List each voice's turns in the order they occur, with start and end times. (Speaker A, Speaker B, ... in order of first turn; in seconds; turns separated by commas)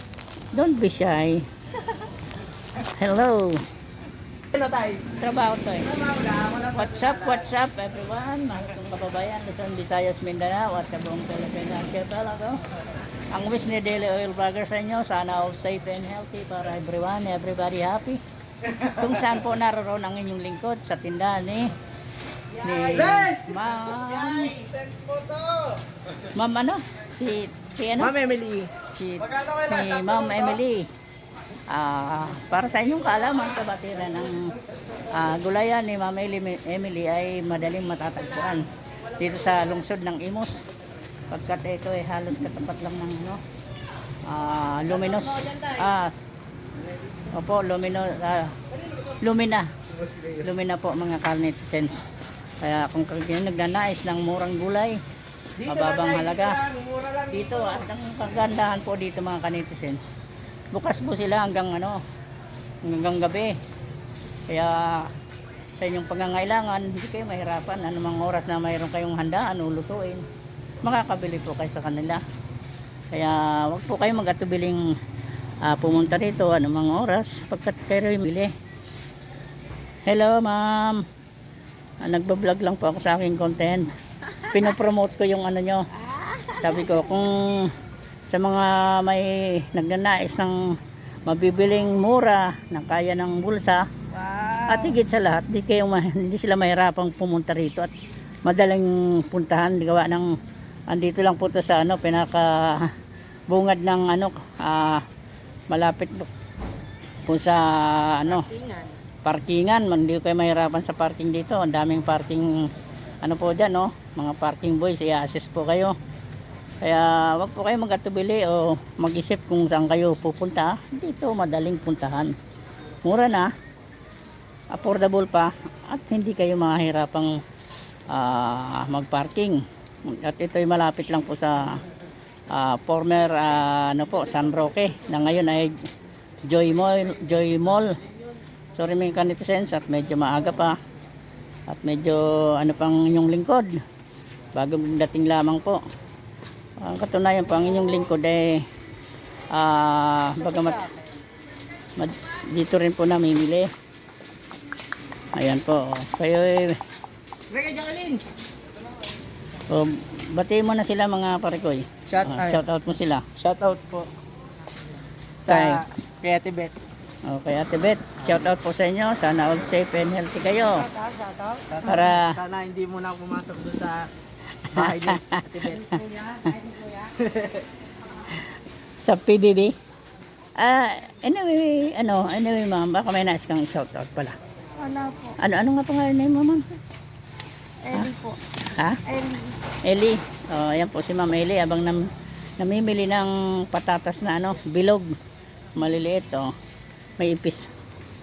Speaker A: 0.5-1.4, Speaker A: 3.0-3.6, Speaker B: 4.5-5.0, Speaker A: 5.2-5.9, Speaker B: 6.2-6.6, Speaker A: 6.6-12.6, Speaker A: 13.3-18.2, Speaker A: 18.8-21.7, Speaker A: 22.6-24.6, Speaker B: 23.0-23.6, Speaker B: 24.4-25.4, Speaker A: 26.4-28.1, Speaker B: 28.0-28.7, Speaker A: 28.9-30.9, Speaker A: 31.7-34.5, Speaker A: 35.1-38.6, Speaker A: 39.2-40.6, Speaker A: 41.3-43.4, Speaker A: 44.3-46.1, Speaker A: 47.4-48.5, Speaker A: 49.2-49.7, Speaker A: 50.4-51.9, Speaker A: 52.6-55.0, Speaker A: 55.6-56.6, Speaker B: 56.6-57.3, Speaker A: 57.3-60.0, Speaker A: 60.7-62.0, Speaker A: 62.9-63.5, Speaker A: 64.5-65.1, Speaker A: 65.8-70.2, Speaker A: 70.8-72.2, Speaker A: 73.1-74.8, Speaker A: 75.7-78.5, Speaker A: 80.1-81.0, Speaker A: 82.0-83.9, Speaker C: 84.4-84.7, Speaker A: 84.5-85.8, Speaker C: 86.0-87.1, Speaker A: 86.6-87.7, Speaker A: 88.3-90.6, Speaker A: 91.3-93.8, Speaker C: 94.1-95.0, Speaker A: 94.7-97.9, Speaker A: 98.4-100.3, Speaker A: 100.9-102.9, Speaker A: 103.5-105.0, Speaker A: 105.7-106.3, Speaker A: 107.3-108.5, Speaker C: 108.2-109.0, Speaker A: 109.2-112.6, Speaker A: 113.2-115.9, Speaker A: 116.8-122.3, Speaker A: 123.0-123.5, Speaker A: 124.7-127.3, Speaker A: 128.1-131.8, Speaker A: 132.5-135.7, Speaker A: 136.5-137.9, Speaker A: 138.8-140.8, Speaker A: 141.7-143.8, Speaker A: 144.6-145.8, Speaker A: 146.8-148.6, Speaker A: 149.5-150.9, Speaker A: 152.0-153.7, Speaker A: 155.4-156.8, Speaker B: 157.5-158.2, Speaker A: 159.7-163.2, Speaker B: 162.1-162.6, Speaker B: 163.4-164.1, Speaker B: 165.4-166.7, Speaker A: 165.5-165.8, Speaker A: 167.3-170.9, Speaker B: 171.2-174.1, Speaker A: 171.8-172.4, Speaker A: 174.6-175.9, Speaker B: 174.7-176.0, Speaker B: 177.2-177.6, Speaker A: 179.1-179.7, Speaker A: 180.6-184.4, Speaker C: 184.8-185.3, Speaker A: 185.4-186.6, Speaker C: 187.9-188.4, Speaker A: 188.7-189.0, Speaker C: 189.1-189.5, Speaker A: 189.9-195.1, Speaker A: 195.8-196.5, Speaker A: 197.2-197.7